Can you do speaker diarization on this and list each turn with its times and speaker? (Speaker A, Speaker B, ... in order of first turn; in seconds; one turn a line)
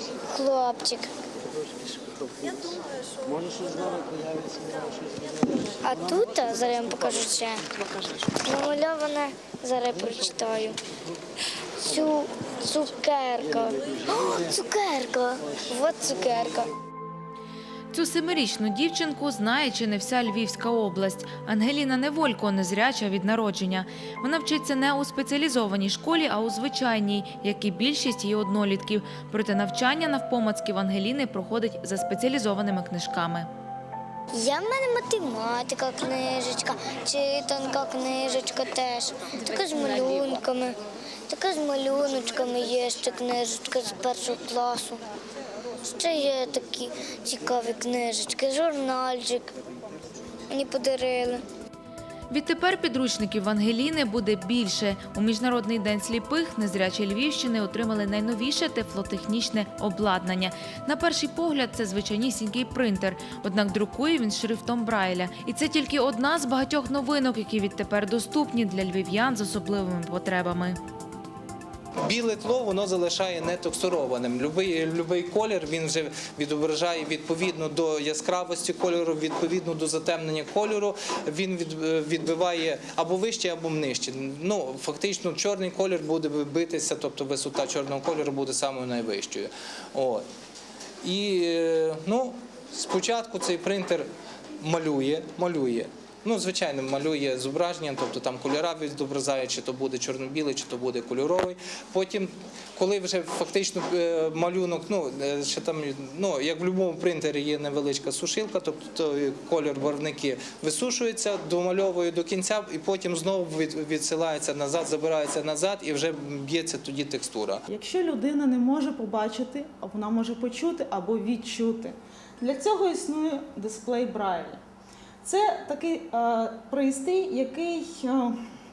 Speaker A: 0.3-1.1
Speaker A: 5.8-7.6
Speaker A: 8.4-10.8
Speaker A: 11.8-16.7
Speaker B: 17.9-33.5
Speaker A: 34.3-40.8
Speaker A: 41.3-45.0
Speaker A: 45.9-49.5
Speaker A: 50.5-51.4
Speaker B: 52.3-70.8
Speaker C: 72.0-90.2
Speaker C: 91.0-94.1
Speaker C: 94.6-117.6
Speaker D: 117.7-124.6
Speaker D: 125.2-128.4